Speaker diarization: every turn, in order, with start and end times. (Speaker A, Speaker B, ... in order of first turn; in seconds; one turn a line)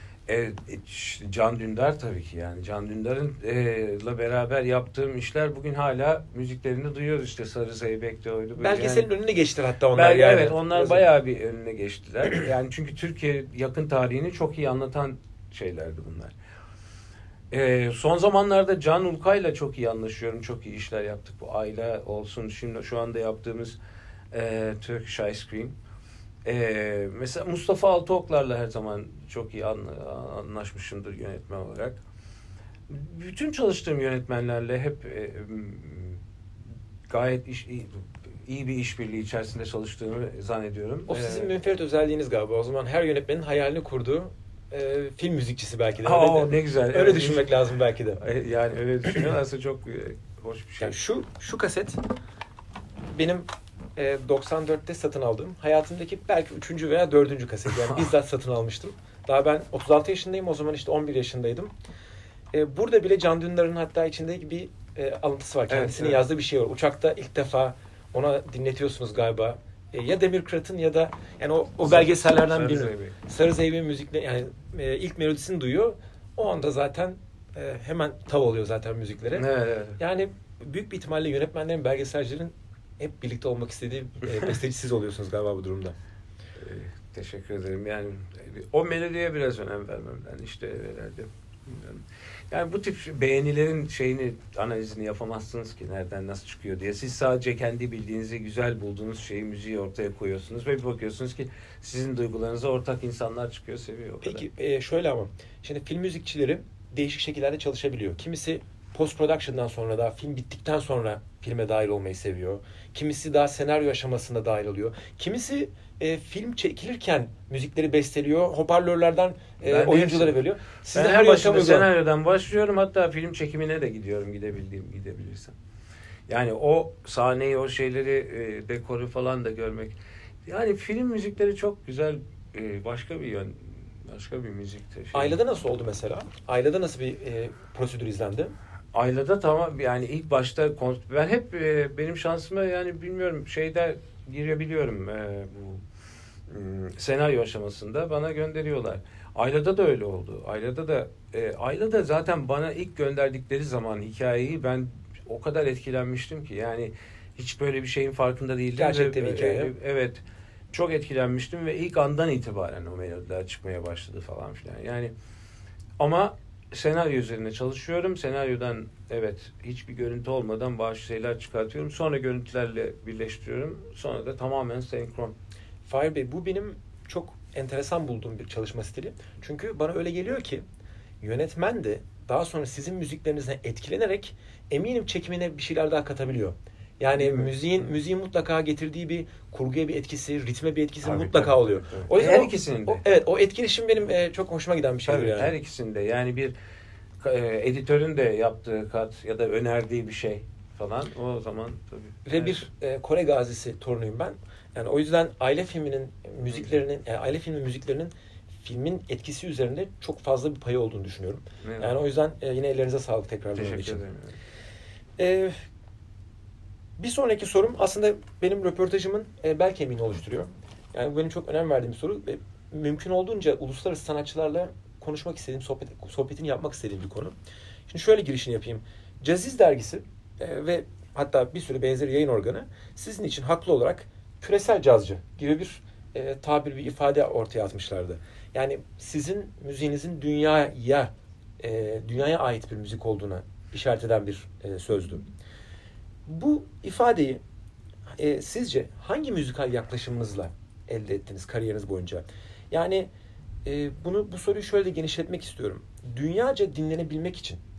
Speaker A: 0.3-9.1
Speaker B: 8.6-11.0
Speaker A: 9.9-16.3
Speaker A: 17.5-23.8
Speaker A: 24.3-25.8
Speaker A: 26.4-32.0
Speaker A: 32.9-36.2
Speaker A: 37.1-41.5
Speaker B: 41.1-48.2
Speaker A: 46.0-47.5
Speaker A: 48.2-51.0
Speaker B: 50.8-52.0
Speaker B: 53.1-61.7
Speaker B: 62.5-79.5
Speaker A: 65.7-66.2
Speaker A: 71.8-73.1
Speaker A: 79.3-80.0
Speaker B: 80.0-86.0
Speaker A: 86.6-104.5
Speaker B: 104.2-121.9
Speaker A: 119.7-120.4
Speaker A: 120.9-125.5
Speaker A: 126.3-135.4
Speaker B: 135.1-138.5
Speaker A: 138.9-145.8
Speaker A: 146.5-160.2
Speaker B: 158.8-159.7
Speaker A: 160.7-165.1
Speaker A: 166.0-175.3
Speaker B: 175.8-180.6
Speaker B: 181.2-195.5
Speaker A: 187.2-187.5
Speaker A: 191.0-193.0
Speaker A: 195.1-196.5
Speaker A: 197.2-202.7
Speaker B: 202.2-214.0
Speaker A: 211.6-212.0
Speaker A: 213.5-214.4
Speaker B: 215.2-215.6
Speaker B: 217.0-227.3
Speaker B: 227.9-245.2
Speaker B: 246.3-247.4
Speaker B: 248.2-253.1
Speaker B: 253.6-257.6